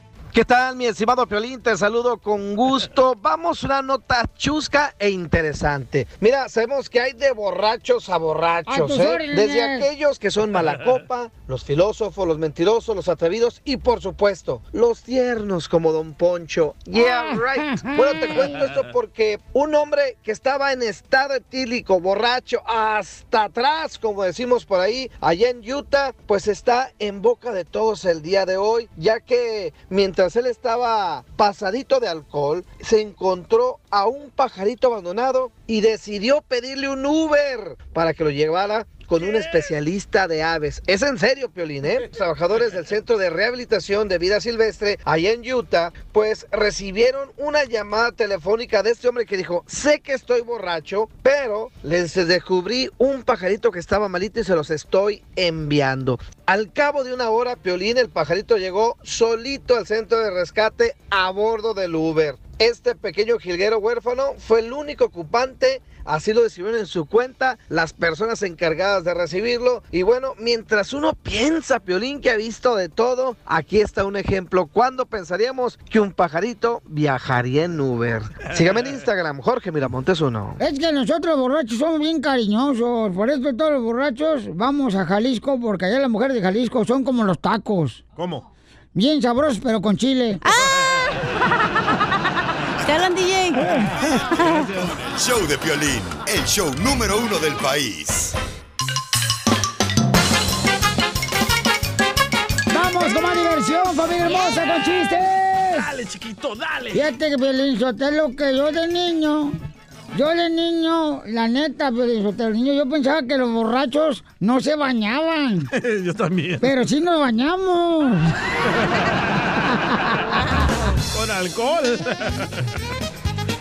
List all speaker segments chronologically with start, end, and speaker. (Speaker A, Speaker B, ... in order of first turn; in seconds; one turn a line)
Speaker A: 0.3-80.6
Speaker B: 8.7-9.9
Speaker B: 16.9-18.6
Speaker B: 80.6-88.0
Speaker C: 88.2-88.5
Speaker B: 88.9-90.4
Speaker D: 90.4-92.0
Speaker D: 92.8-93.8
Speaker D: 94.3-94.7
Speaker C: 94.5-94.9
Speaker E: 95.0-98.3
Speaker B: 102.7-105.9
Speaker D: 104.2-104.6
Speaker C: 105.7-107.0
Speaker B: 106.9-109.5
Speaker B: 110.1-115.7
Speaker C: 115.7-116.7
Speaker B: 116.6-118.3
Speaker C: 121.1-122.5